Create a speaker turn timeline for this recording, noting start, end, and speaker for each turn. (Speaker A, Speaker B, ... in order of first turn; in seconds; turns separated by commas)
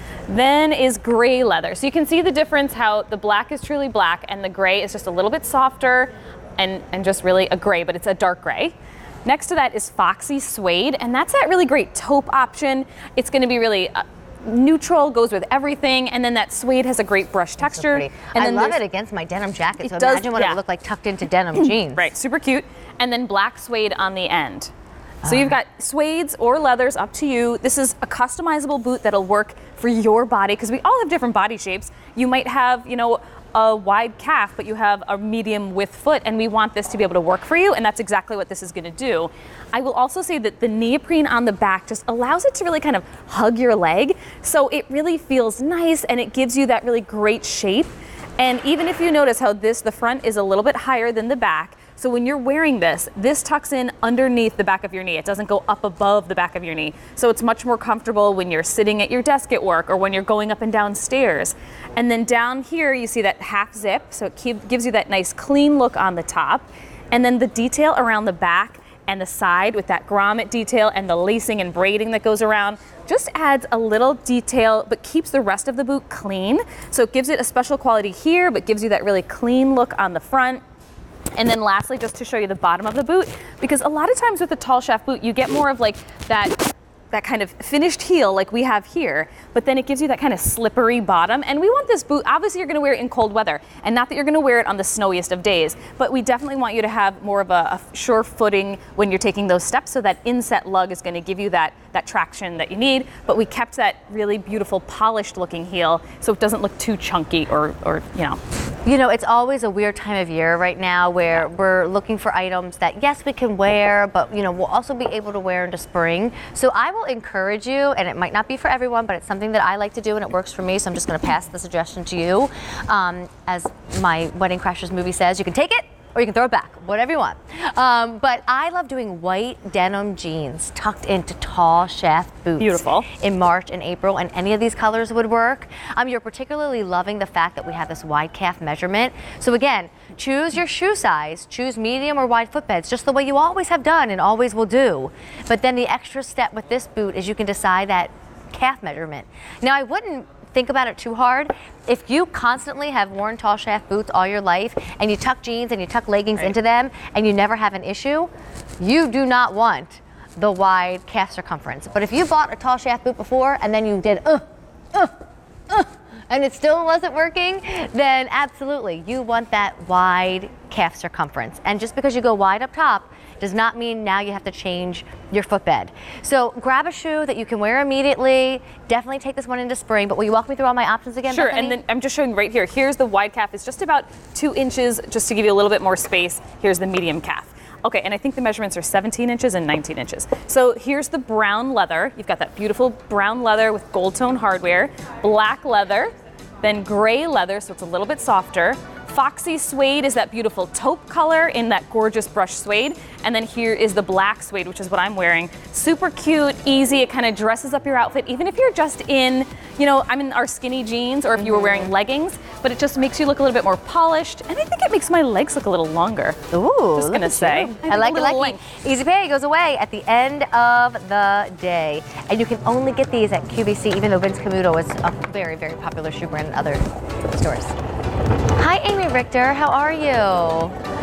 Speaker A: 0.3-8.7, Speaker A: 9.2-18.8, Speaker B: 17.6-22.1, Speaker A: 19.8-20.6, Speaker A: 21.5-24.7, Speaker A: 25.2-80.6, Speaker B: 25.2-25.5, Speaker A: 81.3-108.4, Speaker B: 108.8-165.2, Speaker A: 132.6-133.1, Speaker B: 165.7-181.8, Speaker A: 181.3-216.4, Speaker B: 211.4-211.9, Speaker B: 216.5-227.7, Speaker A: 216.9-218.6, Speaker B: 228.6-230.7